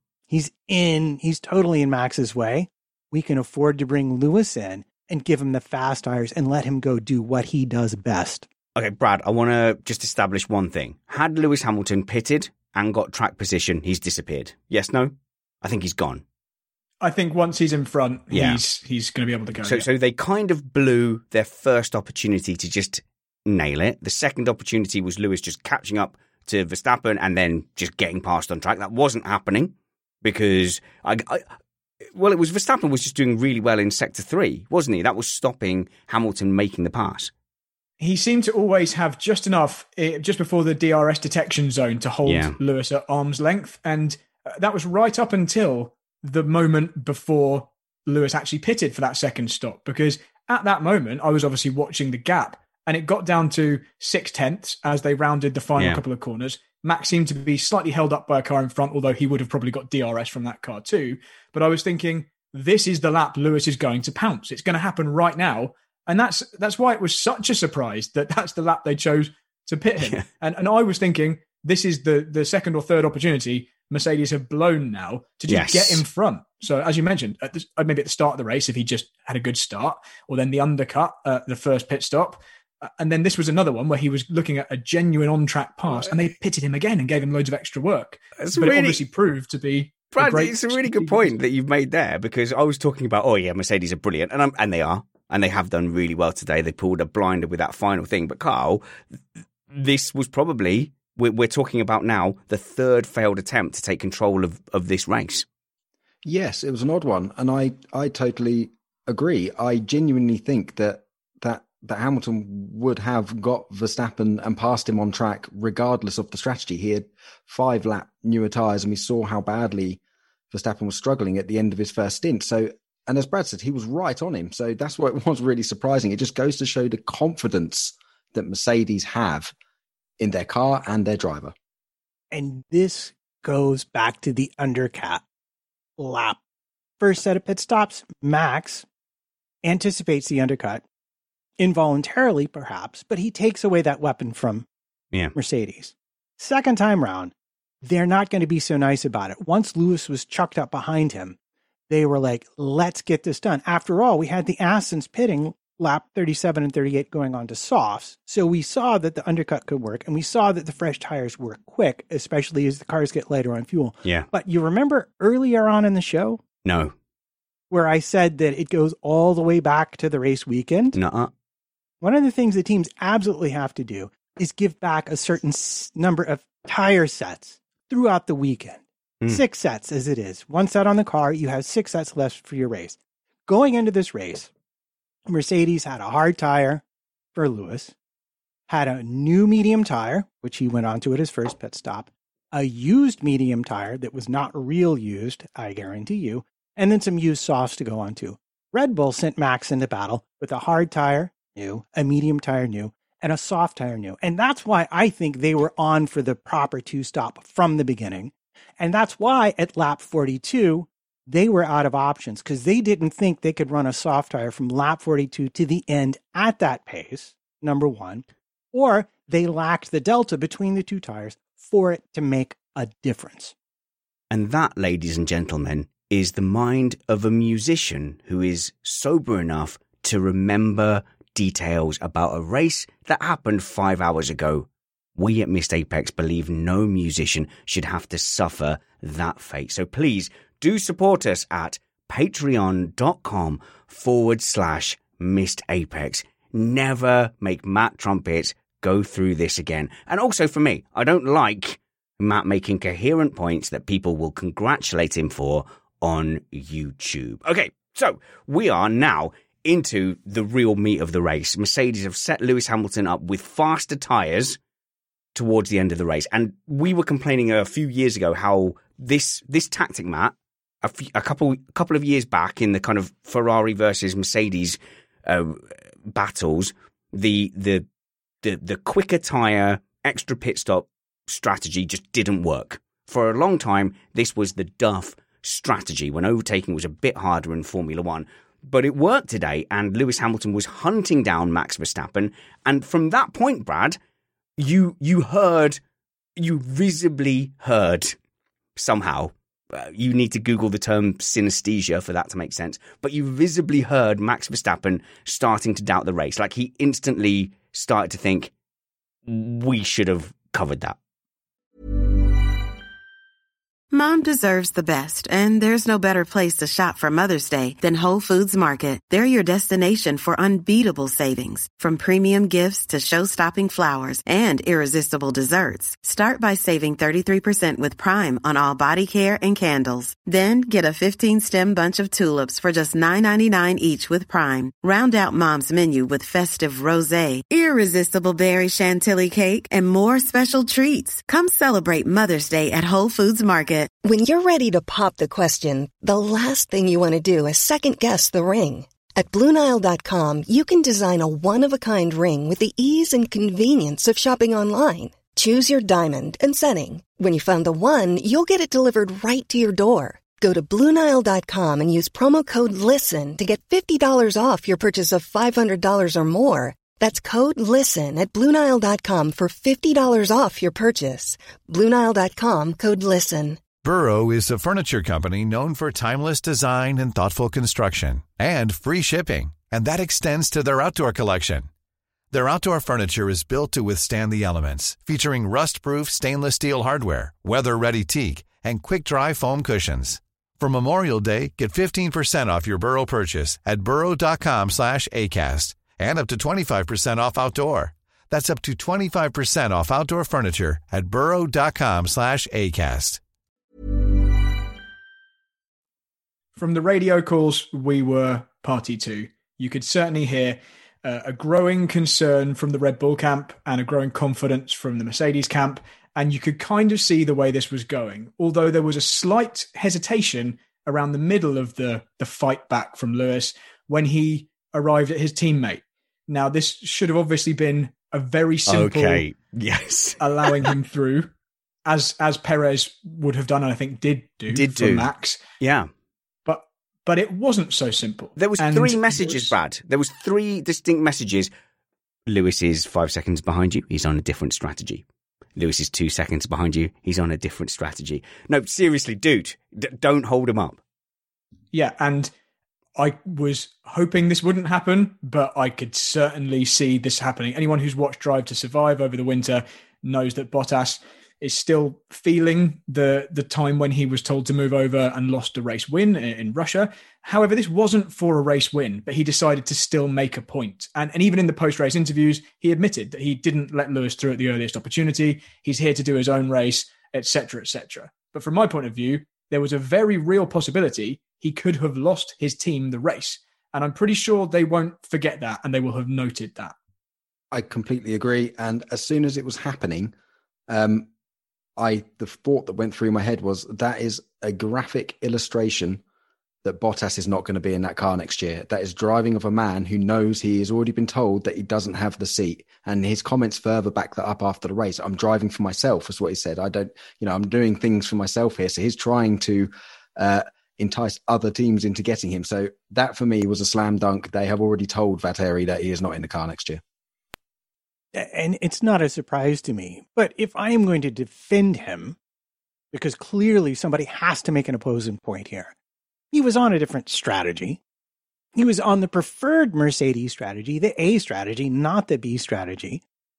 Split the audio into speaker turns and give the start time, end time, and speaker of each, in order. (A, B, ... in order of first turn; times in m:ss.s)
0:00.3-0:08.5 A
0:08.8-0:16.2 B
0:17.0-0:19.9 C
0:18.3-0:18.6 B
0:19.6-0:31.4 B
0:32.1-0:37.3 B
0:38.0-1:31.3 C
0:42.2-0:42.6 B
0:55.8-0:56.0 B
1:15.5-1:16.0 B
1:28.4-1:29.0 B
1:30.1-1:38.8 B
1:39.7-1:45.4 B
1:46.2-2:00.0 D
2:00.5-2:09.5 D
2:10.2-2:11.5 D
2:12.3-2:15.2 A
2:16.0-2:16.4 A
2:17.0-2:18.8 A
2:19.6-2:20.8 A
2:21.6-2:24.6 A
2:25.3-2:31.4 A
2:31.9-2:46.4 A
2:46.6-2:46.9 B
2:47.7-2:51.0 A
2:50.9-2:51.3 B
2:52.0-3:04.5 A
3:05.3-3:06.8 A
3:07.3-3:07.9 A
3:08.7-3:43.5 A
3:44.3-4:24.6 B
4:25.3-4:37.8 B
4:38.4-4:54.0 B
4:54.6-4:55.8 B
4:56.4-4:58.2 B
4:58.8-5:08.5 B
5:09.2-5:11.0 B
5:13.9-5:43.9 E
5:44.0-6:13.6 F
6:13.8-6:21.7 G
6:22.3-6:43.2 G
6:46.6-7:09.2 C
7:08.7-7:10.7 B
7:10.2-7:11.3 C
7:11.9-7:15.4 C
7:14.5-7:15.1 B
7:15.6-7:15.9 B
7:16.4-7:19.5 C
7:18.4-7:21.5 B
7:22.3-7:25.0 B
7:25.6-7:30.8 B
7:31.7-7:32.3 C
7:33.0-8:06.7 C
8:07.5-8:10.1 D
8:10.7-8:11.1 D
8:11.8-8:16.0 D
8:16.6-8:36.8 D
8:38.1-8:42.2 A
8:42.9-8:45.7 A
8:46.3-8:47.8 A
8:48.5-8:53.0 A